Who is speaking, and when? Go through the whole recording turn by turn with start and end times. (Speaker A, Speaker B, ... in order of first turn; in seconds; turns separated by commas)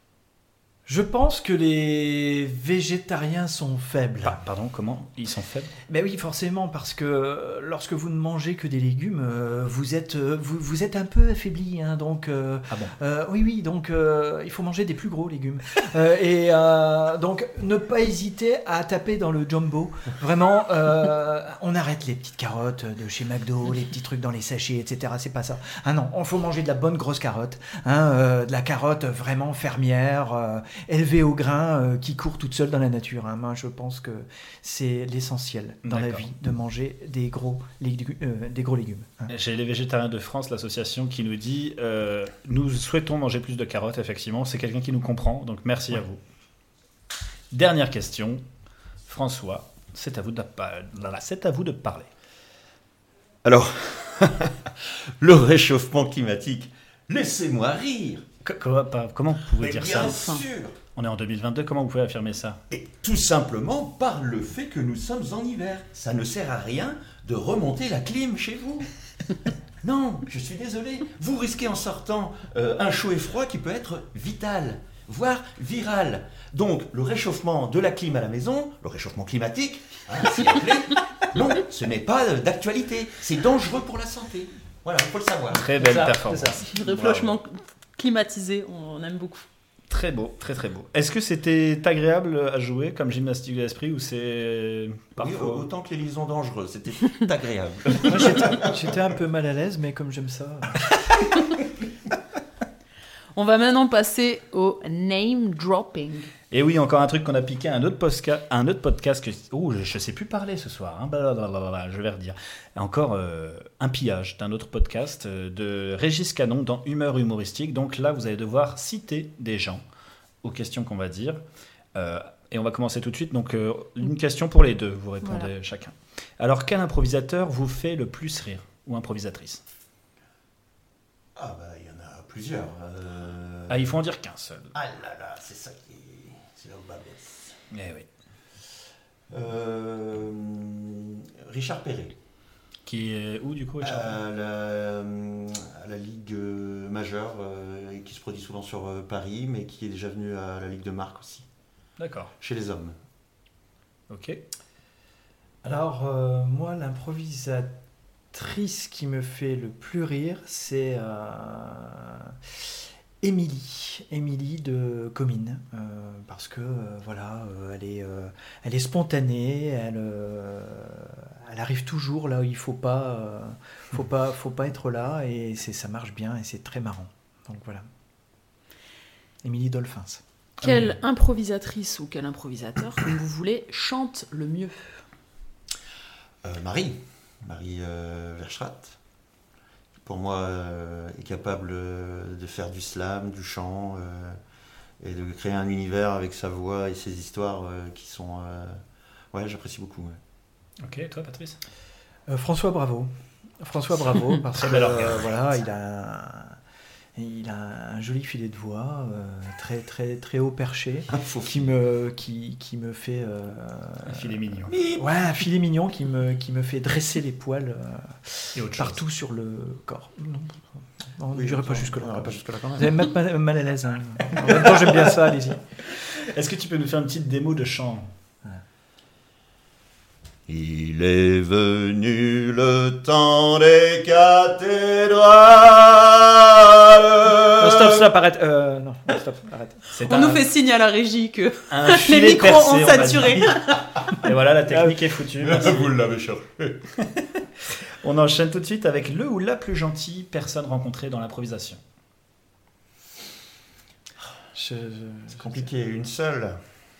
Speaker A: 0.8-4.4, Speaker B: 4.2-5.7, Speaker A: 5.9-39.3, Speaker B: 35.9-36.2, Speaker B: 39.3-46.2, Speaker B: 47.5-48.4, Speaker B: 49.1-52.1, Speaker C: 53.4-58.2, Speaker B: 58.4-60.4, Speaker C: 59.6-60.8, Speaker D: 59.9-60.4, Speaker B: 60.9-62.6, Speaker C: 62.7-68.9, Speaker C: 69.8-85.7, Speaker B: 85.5-87.3, Speaker A: 85.7-86.7, Speaker D: 86.6-89.5, Speaker B: 89.9-95.7, Speaker C: 95.2-98.9, Speaker A: 98.0-100.9, Speaker D: 103.3-106.3, Speaker B: 106.5-119.8, Speaker B: 120.4-121.4, Speaker B: 121.9-129.6, Speaker D: 125.2-125.5, Speaker C: 131.3-133.9, Speaker B: 133.7-134.7, Speaker C: 134.7-137.6, Speaker B: 137.7-138.1, Speaker C: 139.3-142.2, Speaker B: 142.8-144.2, Speaker C: 143.8-151.4, Speaker B: 152.0-152.3, Speaker C: 152.4-152.9, Speaker B: 154.1-154.4, Speaker A: 155.6-157.8, Speaker A: 158.3-162.3, Speaker A: 163.2-177.9, Speaker A: 179.4-180.2, Speaker B: 180.6-180.9, Speaker D: 180.6-185.0, Speaker C: 186.4-189.0, Speaker C: 190.0-194.4, Speaker C: 195.0-198.8, Speaker C: 199.3-200.2, Speaker B: 200.8-201.6, Speaker A: 202.3-206.6, Speaker B: 204.6-205.2, Speaker C: 204.6-205.2, Speaker A: 207.2-214.2, Speaker C: 211.1-211.6, Speaker B: 214.1-214.8, Speaker C: 214.7-215.0, Speaker A: 214.9-225.6, Speaker B: 218.5-219.0, Speaker C: 221.3-223.1, Speaker C: 224.4-224.7, Speaker B: 226.0-228.1, Speaker C: 230.5-238.1, Speaker A: 237.5-239.8, Speaker B: 239.9-240.5, Speaker D: 240.0-243.8, Speaker B: 241.7-245.9, Speaker A: 244.7-245.0, Speaker C: 245.4-246.9, Speaker B: 247.0-251.8, Speaker A: 254.5-255.7, Speaker C: 255.3-256.6